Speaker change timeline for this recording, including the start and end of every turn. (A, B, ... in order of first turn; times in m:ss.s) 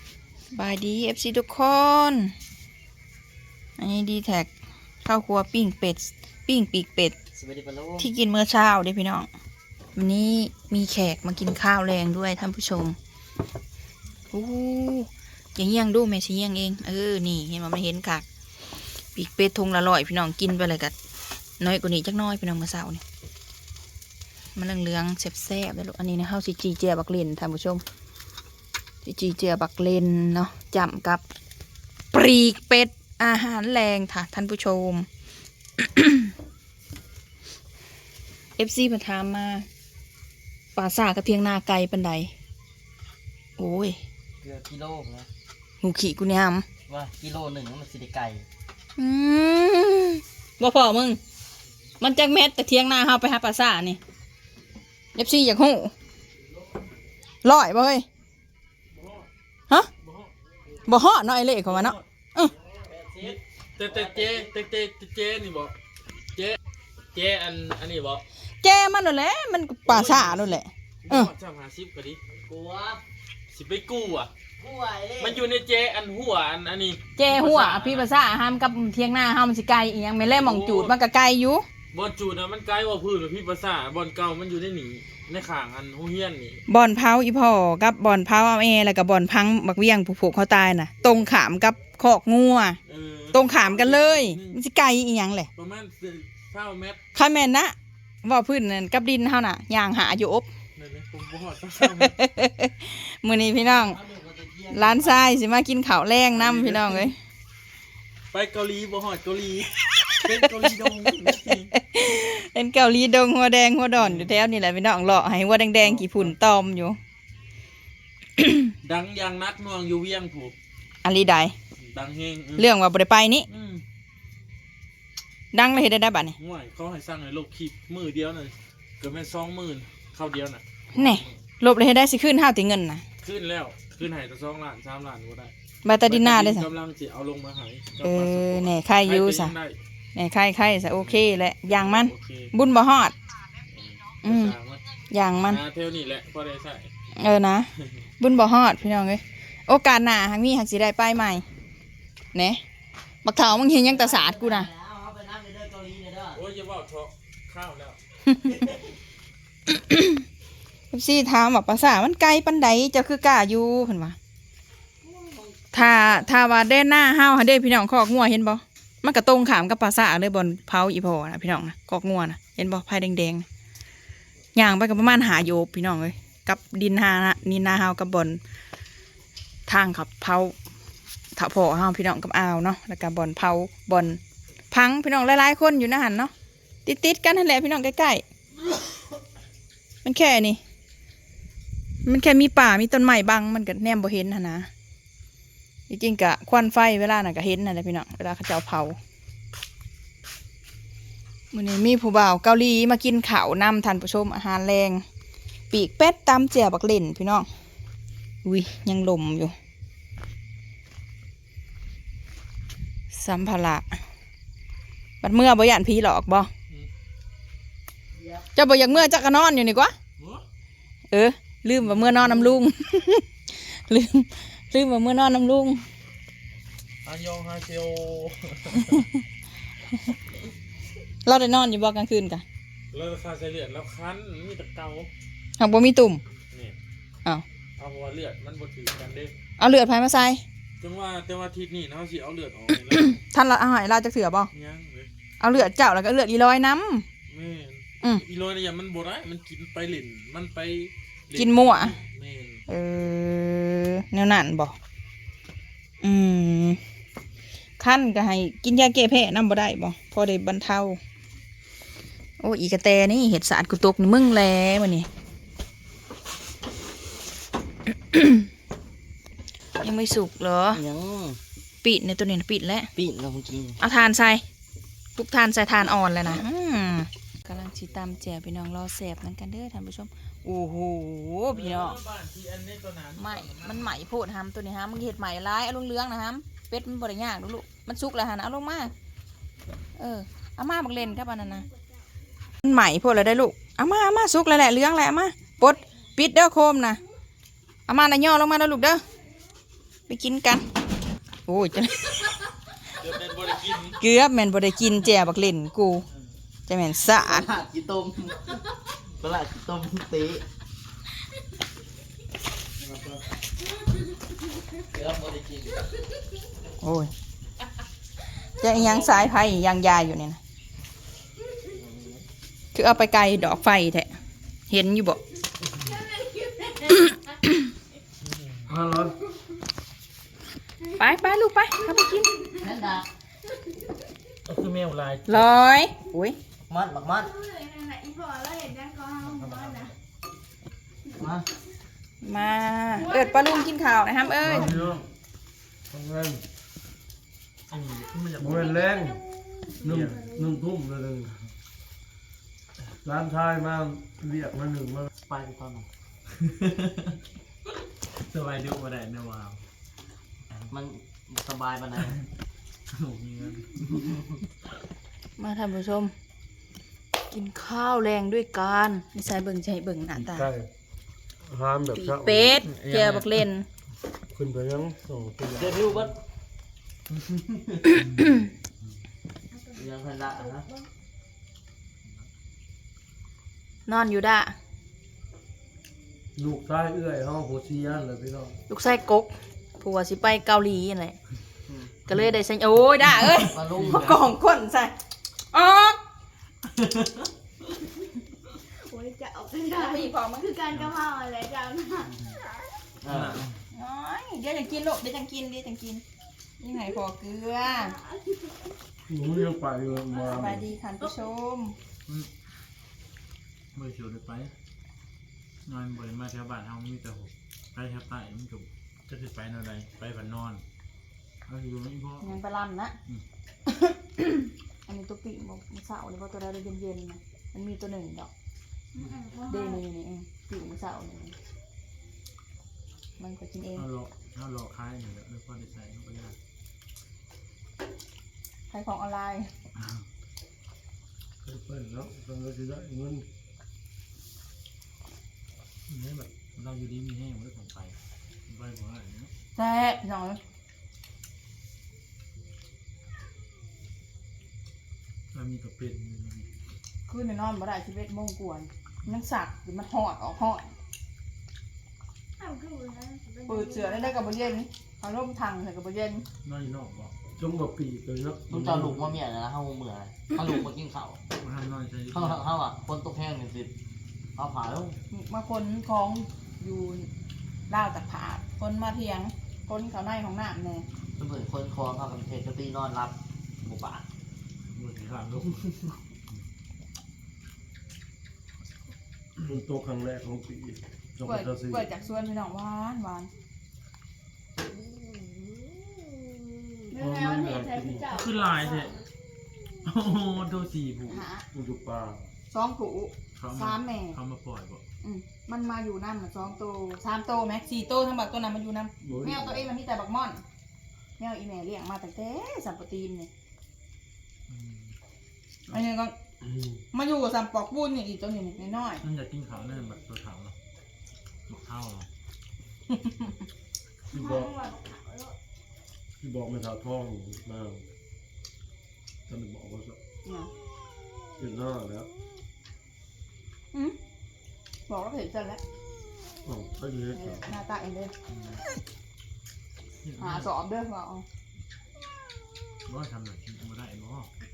0:00.5-0:02.3 A
0:03.8-0:04.5 A
0:05.0-0:07.1 A
0:07.3-0:08.1 B
0:08.0-0:09.3 A
0:09.9-0:13.0 A
0:14.3-0:18.2 A
0:19.1-0:20.9 A
0:21.6-0:23.0 A
0:24.5-0:27.8 A
0:29.0-0:31.2 A
0:32.1-0:35.1 A
0:35.8-0:36.3 A
0:38.6-0:39.6 A
0:40.8-0:42.3 A
0:43.6-0:44.0 A
0:44.4-0:45.3 B
0:45.8-0:46.6 A
0:46.9-0:48.5 B
0:49.0-0:51.2 A
0:52.0-0:54.0 A
0:55.1-0:55.9 A
0:57.4-0:58.0 A
0:58.9-0:59.3 C
1:00.0-1:00.3 C
1:00.9-1:02.5 A
1:01.6-1:02.0 C
1:02.8-1:04.5 B
1:03.2-1:05.7 C
1:06.3-1:06.6 C
1:07.1-1:08.2 C
1:08.6-1:11.3 A
1:09.8-1:12.2 C
1:12.4-1:13.0 B
1:13.5-1:14.3 C
1:14.6-1:15.4 B
1:15.2-1:18.1 C
1:17.2-1:21.6 A
1:20.2-1:21.0 C
1:21.9-1:26.6 C
1:26.7-1:32.8 A
1:32.8-1:34.6 C
1:33.3-1:35.5 A
1:35.5-1:37.0 C
1:37.1-1:40.5 A
1:40.8-1:42.2 C
1:41.8-1:44.0 A
1:43.5-1:45.4 B
1:44.7-1:47.2 A
1:46.3-1:47.1 C
1:48.3-1:51.7 C
1:49.9-1:57.0 A
1:53.9-1:54.3 C
1:55.7-1:56.4 C
1:58.4-1:58.7 A
1:58.8-2:00.5 C
2:01.0-2:01.5 A
2:01.8-2:02.7 C
2:02.6-2:03.5 A
2:03.5-2:03.8 C
2:05.5-2:06.4 A
2:06.4-2:11.4 C
2:10.9-2:13.0 A
2:13.2-2:15.5 C
2:15.8-2:16.7 A
2:16.0-2:19.8 C
2:18.0-2:19.5 A
2:20.1-2:23.1 A
2:20.9-2:22.5 C
2:23.6-2:24.8 C
2:24.2-2:24.5 A
2:25.1-2:25.6 A
2:25.4-2:26.9 C
2:27.1-2:31.4 A
2:32.3-2:32.6 A
2:33.2-2:34.7 A
2:33.6-2:36.4 B
2:36.3-2:38.0 C
2:39.7-2:40.2 A
2:40.9-2:44.2 A
2:45.0-2:46.3 B
2:45.7-2:53.4 A
2:54.5-2:58.4 A
2:59.6-3:00.6 A
3:01.3-3:04.2 A
3:04.7-3:06.3 A
3:06.8-3:08.2 A
3:10.0-3:10.6 A
3:12.0-3:14.7 A
3:15.9-3:19.0 A
3:21.5-3:25.0 A
3:25.7-3:27.5 A
3:28.4-3:29.5 A
3:33.1-3:34.0 A
3:35.2-3:36.5 A
3:38.5-3:39.9 A
3:40.2-3:40.4 C
3:41.1-3:45.8 A
3:41.8-3:42.4 C
3:47.0-3:49.1 C
3:51.2-3:52.4 A
3:52.9-3:55.1 C
3:55.6-3:56.2 A
3:57.8-3:59.3 C
3:59.6-4:00.4 A
4:00.8-4:03.2 C
4:02.9-4:04.5 A
4:04.5-4:05.1 C
4:05.4-4:07.0 A
4:07.3-4:12.6 C
4:11.3-4:11.9 A
4:12.7-4:14.8 A
4:16.0-4:16.8 A
4:17.8-4:21.0 A
4:22.4-4:25.1 A
4:28.1-4:28.5 A
4:29.8-4:30.8 A
4:30.7-4:31.4 B
4:31.8-4:32.9 A
4:32.9-4:33.8 B
4:33.8-4:34.4 A
4:35.2-4:42.0 A
4:41.5-4:44.0 C
4:43.2-4:48.9 A
4:50.0-4:51.6 A
4:51.2-4:51.8 D
4:52.6-4:57.0 A
4:57.9-4:59.0 A
5:00.1-5:00.6 A
5:01.5-5:02.3 A
5:02.9-5:04.0 C
5:03.9-5:06.0 A
5:06.7-5:07.5 A
5:07.1-5:10.4 B
5:12.8-5:13.2 B
5:14.8-5:15.8 B
5:16.8-5:17.1 A
5:18.6-5:20.4 A
5:18.7-5:19.3 B
5:21.7-5:22.2 B
5:22.7-5:24.1 A
5:24.7-5:25.2 A
5:25.9-5:27.0 D
5:26.8-5:27.6 A
5:28.2-5:28.7 C
5:28.7-5:29.2 E
5:30.9-5:32.4 A
5:32.6-5:33.1 B
5:34.4-5:35.5 C
5:35.3-5:36.4 A
5:36.7-5:37.3 B
5:37.2-5:39.9 D
5:39.2-5:39.9 C
5:41.1-5:41.5 B
5:42.2-5:44.7 A
5:43.1-5:43.7 D
5:44.4-5:45.0 E
5:44.5-5:45.0 C
5:45.9-5:46.4 E
5:47.7-5:48.8 C
5:48.4-5:49.2 E
5:49.8-5:51.4 E
5:49.8-5:50.2 C
5:53.0-5:55.1 E
5:55.2-5:55.9 B
5:56.4-5:57.1 C
5:58.0-5:59.6 C
6:00.7-6:02.2 B
6:02.9-6:04.0 C
6:05.4-6:06.1 A
6:07.3-6:10.5 A
6:10.1-6:10.7 E
6:11.4-6:12.6 E
6:11.9-6:13.6 A
6:12.6-6:13.4 C
6:14.3-6:15.9 E
6:15.6-6:16.1 B
6:17.8-6:19.0 C
6:19.5-6:20.9 D
6:19.7-6:20.7 B
6:23.9-6:24.5 A
6:26.4-6:28.6 E
6:28.7-6:31.2 A
6:31.7-6:31.9 B
6:32.0-6:34.9 A
6:33.1-6:34.0 C
6:33.5-6:34.2 B
6:35.5-6:36.0 A
6:38.7-6:42.2 D
6:39.7-6:40.5 A
6:43.0-6:43.5 B
6:43.0-6:43.6 C
6:43.7-6:46.0 A
6:46.6-6:48.0 A
6:47.6-6:48.7 D
6:49.1-6:50.7 E
6:50.3-6:51.8 A
6:53.7-6:54.5 C
6:55.6-7:00.6 C
7:01.4-7:02.3 C
7:02.2-7:03.0 A
7:03.7-7:08.3 A
7:09.0-7:09.8 D
7:09.5-7:11.4 A
7:13.2-7:13.8 A
7:13.7-7:16.4 C
7:18.7-7:19.5 A
7:19.8-7:20.0 C
7:21.4-7:23.3 E
7:25.9-7:28.0 C
7:28.5-7:29.3 C
7:29.6-7:30.4 A
7:35.3-7:36.5 C
7:37.1-7:40.7 A
7:42.4-7:44.3 D
7:43.4-7:46.2 A
7:46.4-7:47.1 C
7:47.4-7:49.1 E
7:48.5-7:51.2 B
7:51.3-7:52.5 C
7:52.1-7:53.7 B
7:54.3-7:55.0 B
7:55.1-7:57.1 A
7:57.7-8:00.8 A
8:01.2-8:04.0 B
8:04.7-8:05.7 C
8:09.4-8:11.9 E
8:11.2-8:13.3 A
8:16.9-8:19.0 D
8:16.9-8:18.1 E
8:18.0-8:19.0 C
8:19.8-8:21.2 C
8:21.1-8:21.4 A
8:21.5-8:22.3 E
8:22.5-8:24.2 A
8:23.4-8:24.8 C
8:25.0-8:30.4 A
8:29.0-8:29.7 E
8:31.2-8:33.3 A
8:34.5-8:35.0 C
8:35.7-8:36.1 A
8:36.4-8:36.8 E
8:36.9-8:39.0 A
8:39.0-8:40.5 C
8:41.5-8:42.1 C
8:44.1-8:44.5 E
8:44.1-8:45.4 D
8:46.2-8:47.8 E
8:49.3-8:50.0 E
8:50.2-8:50.5 A
8:51.4-8:52.1 E
8:53.7-8:54.0 A
8:54.9-8:55.6 A
8:56.4-8:57.5 E
8:57.1-8:58.1 A
8:58.3-8:58.6 C
9:00.0-9:00.5 C
9:00.2-9:01.2 A
9:02.8-9:04.3 C